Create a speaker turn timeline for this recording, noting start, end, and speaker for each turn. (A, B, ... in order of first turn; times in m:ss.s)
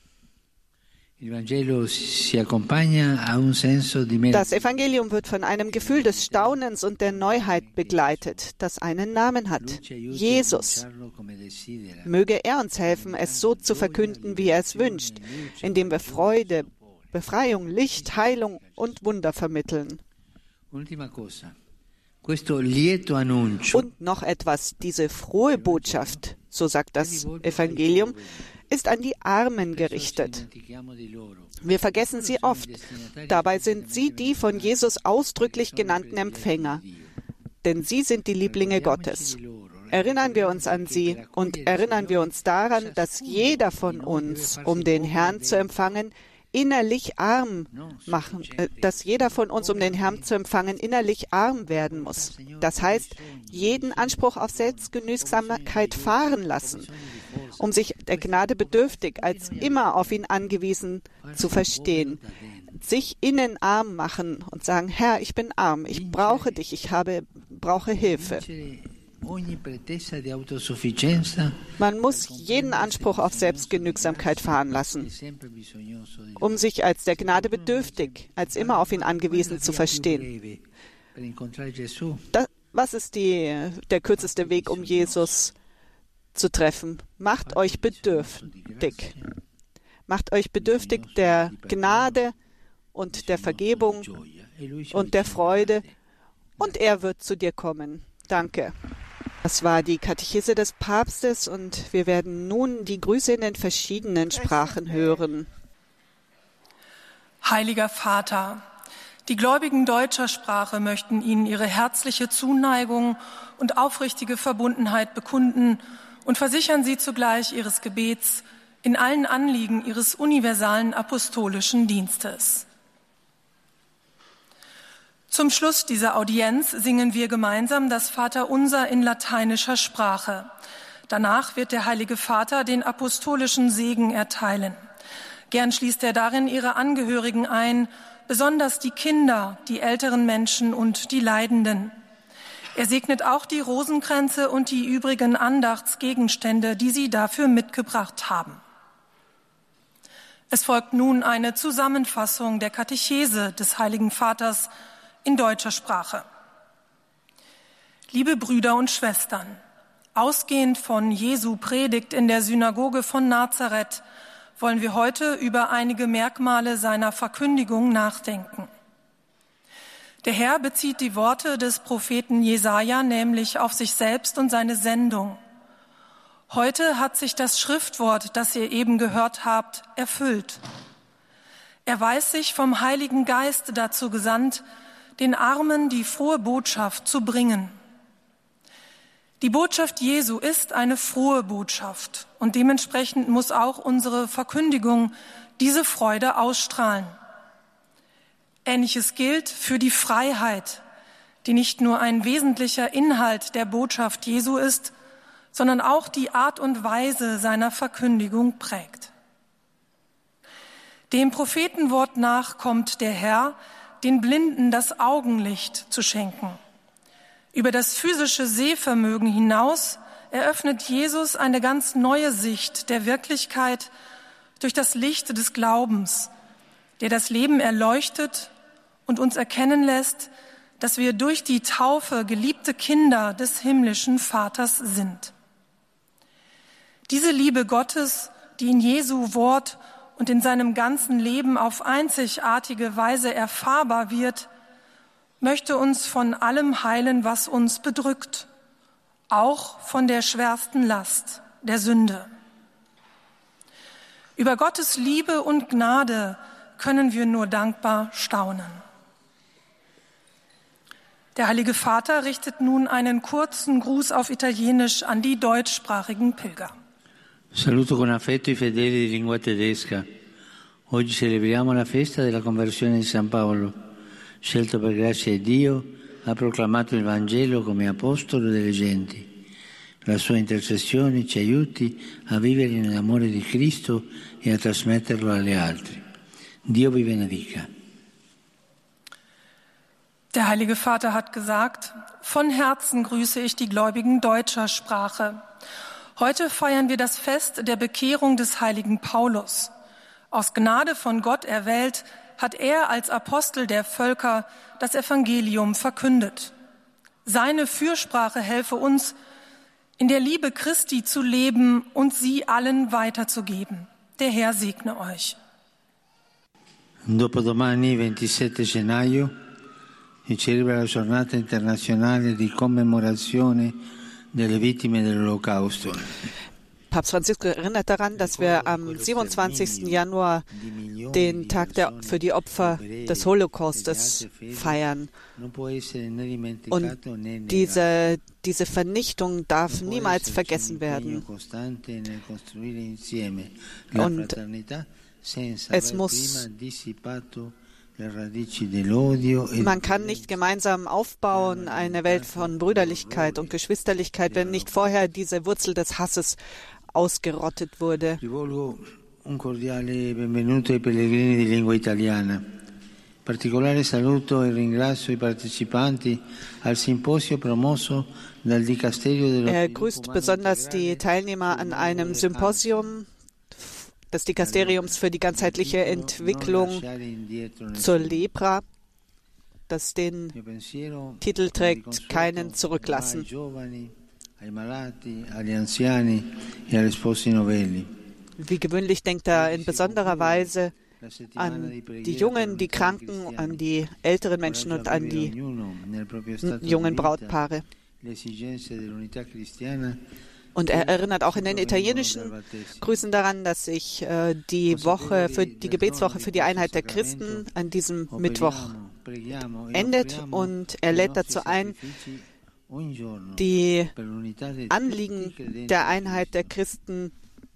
0:01.2-0:04.8 A
0:04.3-0:10.8 B
0:05.7-0:08.4 A
0:09.6-0:12.1 A
0:12.0-0:20.0 B
0:12.8-0:19.0 A
0:20.7-0:21.5 A
0:22.2-0:23.9 A
0:23.7-0:28.2 B
0:25.6-0:26.2 A
0:27.0-0:28.5 A
0:28.7-0:30.4 B
0:29.7-0:37.1 A
0:31.6-0:32.7 B
0:33.3-0:36.8 B
0:37.6-0:39.4 B
0:38.4-0:45.9 A
0:39.9-0:56.9 B
0:47.7-0:50.3 A
0:51.6-1:00.2 A
0:57.6-1:02.2 B
1:01.2-1:02.8 A
1:02.8-1:08.4 B
1:05.9-1:06.6 A
1:08.0-1:20.6 A
1:11.8-1:15.1 B
1:16.4-1:20.2 B
1:21.1-1:22.2 A
1:22.3-1:25.5 B
1:24.1-1:25.5 A
1:26.3-1:29.1 B
1:27.4-1:29.3 A
1:30.1-1:32.3 B
1:30.6-1:32.2 A
1:32.9-1:34.1 B
1:33.1-1:35.9 A
1:34.9-1:35.8 B
1:36.6-1:38.7 B
1:39.4-1:45.5 B
1:47.4-1:48.6 C
1:49.2-2:02.6 C
2:05.3-2:10.5 C
2:11.1-2:14.8 C
2:15.5-2:21.9 C
2:22.7-2:28.6 C
2:30.5-2:34.7 C
2:35.2-2:36.2 C
2:38.1-2:39.6 C
2:40.1-2:44.0 C
2:44.6-2:48.7 C
2:50.2-2:55.4 C
2:56.5-3:00.6 C
3:01.8-3:04.6 C
3:05.2-3:07.7 C
3:09.4-3:17.1 C
3:18.6-3:20.8 C
3:21.4-3:24.9 C
3:25.5-3:29.1 C
3:31.1-3:36.6 C
3:37.5-3:43.9 C
3:44.6-3:46.3 C
3:47.0-3:48.5 C
3:49.0-3:55.3 C
3:57.1-4:04.5 C
4:05.4-4:08.5 C
4:09.3-4:12.3 C
4:14.4-4:18.8 C
4:21.4-4:26.7 C
4:27.5-4:30.0 A
4:30.9-4:33.8 A
4:34.4-4:39.3 A
4:40.0-4:46.0 A
4:46.6-4:47.7 A
4:50.3-4:55.4 C
4:56.2-4:59.7 C
5:00.3-5:06.5 C
5:07.2-5:09.1 C
5:10.0-5:15.4 C
5:17.0-5:19.3 A
5:20.2-5:23.8 A
5:24.3-5:26.3 A
5:26.9-5:30.4 B
5:28.1-5:34.8 A
5:31.1-5:35.1 B
5:35.3-5:37.9 A
5:37.5-5:41.2 B
5:39.7-5:50.3 A
5:43.9-5:44.4 B
5:45.7-5:46.4 B
5:49.6-5:56.4 B
5:51.3-5:53.5 A
5:54.2-5:54.7 A
5:56.9-5:58.2 B
5:58.2-6:02.4 A
6:03.2-6:12.9 A
6:09.4-6:16.8 B
6:14.4-6:18.3 A
6:17.8-6:18.6 B
6:19.7-6:20.4 B
6:20.3-6:27.9 A
6:21.2-6:23.2 B
6:28.4-6:30.7 B
6:29.3-6:33.6 A
6:31.4-6:35.3 B
6:34.4-6:37.4 A
6:36.4-6:37.6 B
6:38.0-6:40.0 A
6:40.5-6:48.7 B
6:40.7-6:42.9 A
6:44.7-6:47.5 A
6:48.1-6:56.5 A
6:49.7-6:51.8 B
6:53.4-6:53.9 B
6:54.7-6:57.1 B